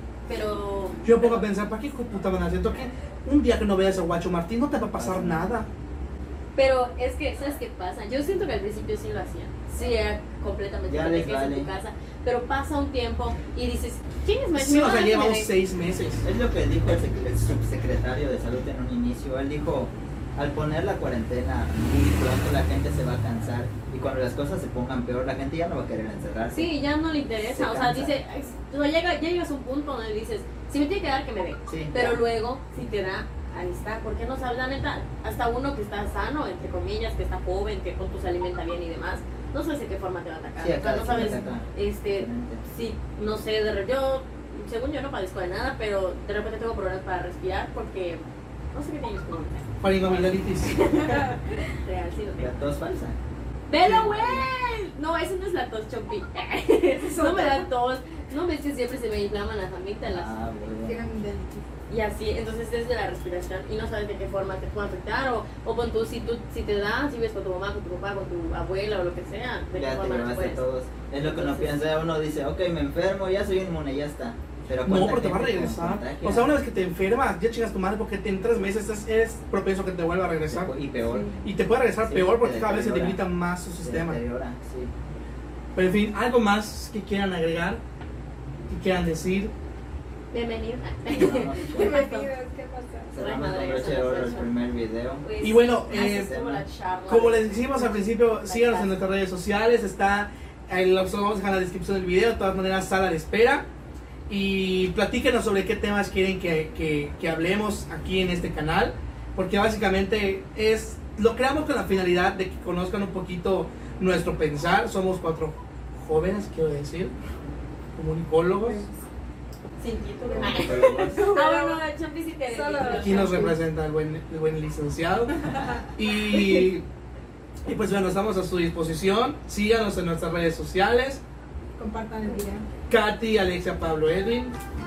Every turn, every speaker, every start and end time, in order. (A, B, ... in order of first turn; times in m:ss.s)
0:00.3-0:01.4 A
0:01.0-0:05.7 B
0:05.0-0:05.5 C
0:06.6-0:15.5 A
0:10.9-0:11.7 C
0:14.5-0:16.2 B
0:16.2-0:26.7 C
0:26.5-0:49.7 A
0:27.5-0:28.1 C
0:31.7-0:32.2 C
0:40.6-0:42.6 C
0:49.8-0:50.8 B
0:50.6-0:52.5 A
0:52.4-0:53.2 C
0:53.7-1:00.3 A
0:53.8-0:54.1 B
0:54.1-0:54.4 C
0:57.0-0:57.7 D
1:00.1-1:01.1 C
1:00.8-1:01.6 D
1:01.9-1:10.6 A
1:09.7-1:16.5 C
1:11.2-1:11.8 A
1:14.8-1:20.7 B
1:20.5-1:21.3 C
1:21.0-1:21.4 D
1:21.4-1:24.2 B
1:22.0-1:23.2 C
1:23.8-1:24.9 C
1:25.7-1:27.8 B
1:28.7-1:29.5 B
1:30.3-1:32.3 A
1:31.1-1:32.0 C
1:31.7-1:33.2 D
1:33.1-1:35.3 C
1:33.2-1:34.5 A
1:35.2-1:38.9 A
1:35.4-1:36.3 B
1:35.9-1:36.6 C
1:37.1-1:43.6 B
1:44.3-1:57.1 B
1:58.0-1:58.8 B
1:58.6-1:59.0 D
1:59.8-2:03.4 A
2:00.3-2:01.8 D
2:00.3-2:01.2 C
2:02.5-2:03.6 D
2:02.8-2:06.8 B
2:07.6-2:11.2 B
2:11.8-2:12.6 D
2:12.9-2:14.5 B